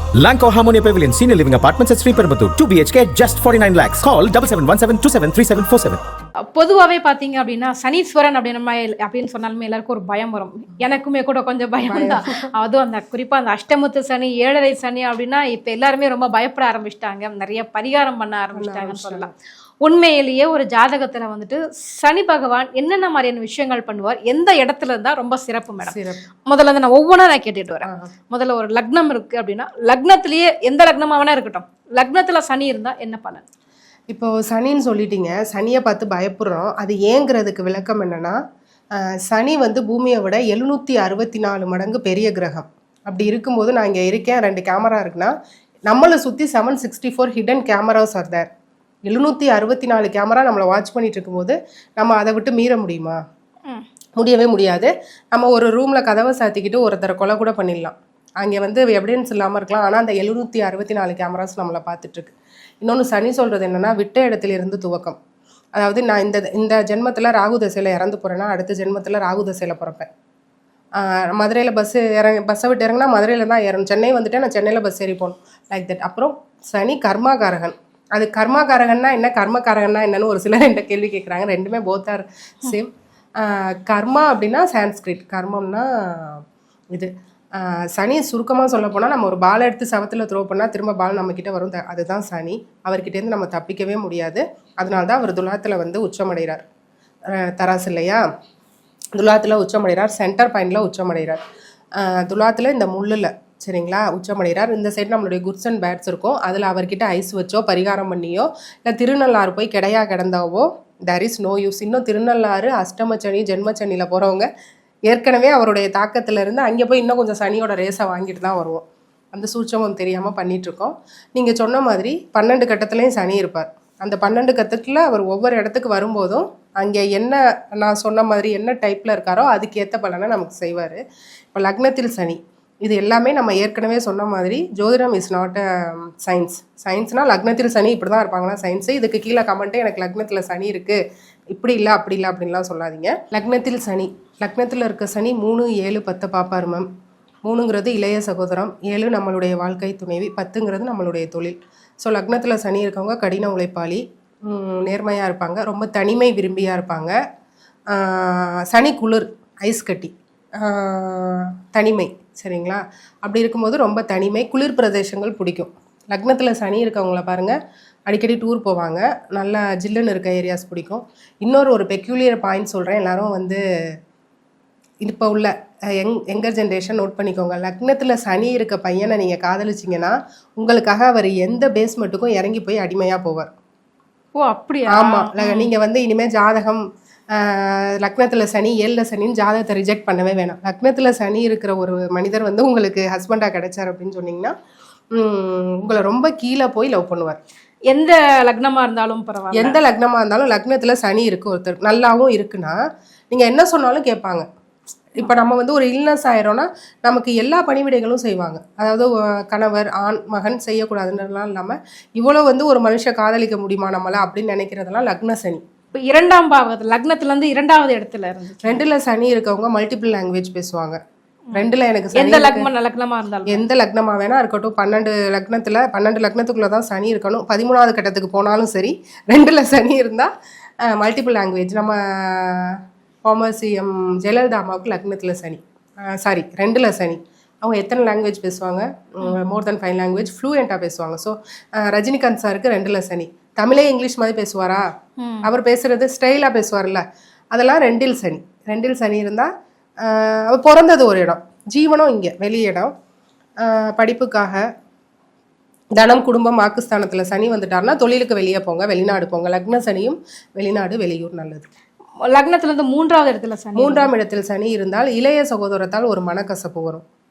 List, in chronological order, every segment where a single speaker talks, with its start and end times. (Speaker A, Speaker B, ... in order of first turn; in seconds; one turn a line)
Speaker A: 0.1-6.0
Speaker B: 6.5-25.9
Speaker C: 11.8-12.5
Speaker C: 18.5-19.3
Speaker C: 25.8-26.2
Speaker B: 26.5-33.4
Speaker C: 27.8-28.1
Speaker C: 34.1-38.4
Speaker C: 39.0-45.3
Speaker C: 45.9-48.5
Speaker C: 49.1-53.2
Speaker C: 54.2-65.2
Speaker C: 65.8-70.1
Speaker C: 71.0-86.4
Speaker C: 86.9-96.6
Speaker C: 97.3-98.2
Speaker C: 99.2-101.4
Speaker C: 102.0-114.5
Speaker C: 115.1-131.0
Speaker C: 131.5-141.0
Speaker C: 141.5-146.9
Speaker C: 147.4-157.1
Speaker C: 157.9-167.5
Speaker C: 168.1-173.6
Speaker C: 175.0-183.5
Speaker B: 184.4-185.7
Speaker C: 184.9-186.8
Speaker C: 187.3-194.5
Speaker C: 195.1-197.4
Speaker B: 197.9-199.8
Speaker C: 199.5-202.8
Speaker C: 203.3-204.4
Speaker C: 205.1-215.6
Speaker B: 215.9-218.8
Speaker C: 218.6-221.0
Speaker C: 221.5-222.7
Speaker B: 222.2-223.6
Speaker C: 223.5-230.3
Speaker C: 230.8-244.8
Speaker B: 239.2-239.5
Speaker B: 245.2-245.5
Speaker C: 245.4-249.5
Speaker C: 250.0-252.9
Speaker C: 253.6-254.6
Speaker C: 256.0-261.7
Speaker B: 262.2-264.1
Speaker C: 263.8-267.0